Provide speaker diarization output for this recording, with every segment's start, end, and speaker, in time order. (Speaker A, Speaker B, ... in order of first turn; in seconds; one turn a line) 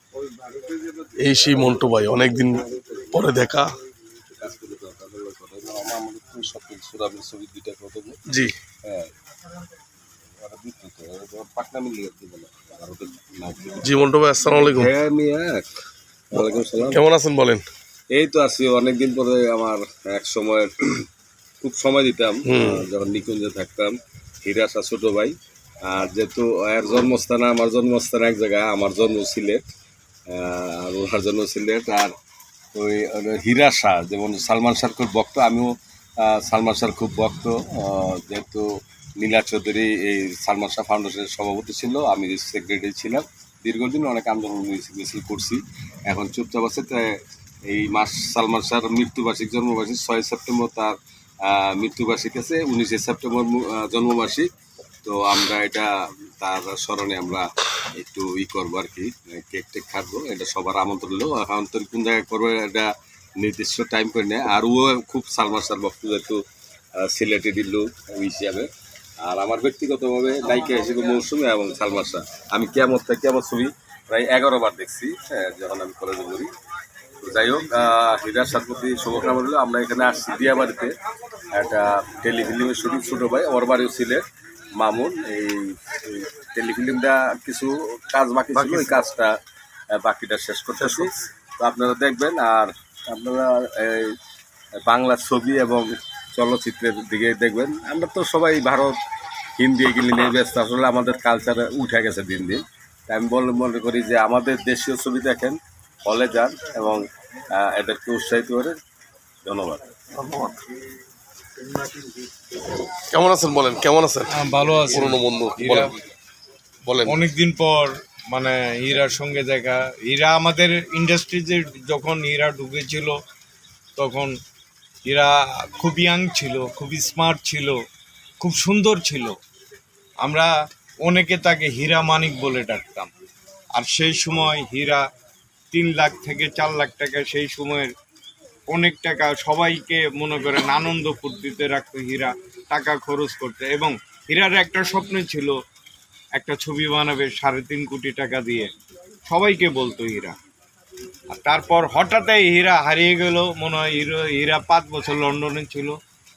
Speaker A: 0.2-0.9
Speaker B: 1.2-3.7
Speaker C: 2.7-3.1
Speaker C: 4.3-8.2
Speaker C: 8.9-9.1
Speaker C: 10.4-13.8
Speaker B: 13.8-14.9
Speaker C: 14.4-15.7
Speaker C: 16.3-17.0
Speaker B: 16.3-17.6
Speaker C: 18.1-21.1
Speaker C: 21.6-25.3
Speaker B: 22.4-22.8
Speaker C: 25.8-29.7
Speaker C: 30.3-32.1
Speaker C: 32.8-35.7
Speaker C: 36.2-38.7
Speaker C: 39.2-47.2
Speaker C: 47.7-54.5
Speaker C: 55.0-66.4
Speaker C: 67.0-68.7
Speaker C: 69.2-76.5
Speaker C: 77.2-80.9
Speaker C: 81.5-84.2
Speaker C: 84.8-89.3
Speaker B: 88.5-89.0
Speaker C: 89.9-91.1
Speaker B: 90.8-91.3
Speaker C: 91.6-94.1
Speaker C: 94.9-98.9
Speaker C: 99.5-107.0
Speaker C: 107.5-108.8
Speaker C: 109.4-109.8
Speaker B: 110.1-110.6
Speaker B: 113.1-114.3
Speaker A: 114.3-115.9
Speaker B: 114.9-115.9
Speaker B: 116.8-117.2
Speaker A: 117.1-123.2
Speaker A: 124.0-124.3
Speaker A: 125.0-127.8
Speaker A: 128.4-129.3
Speaker A: 130.2-130.5
Speaker A: 131.1-133.1
Speaker A: 133.8-135.0
Speaker A: 135.7-137.9
Speaker A: 138.7-145.6
Speaker A: 146.4-148.7
Speaker A: 149.3-150.4
Speaker A: 151.3-156.0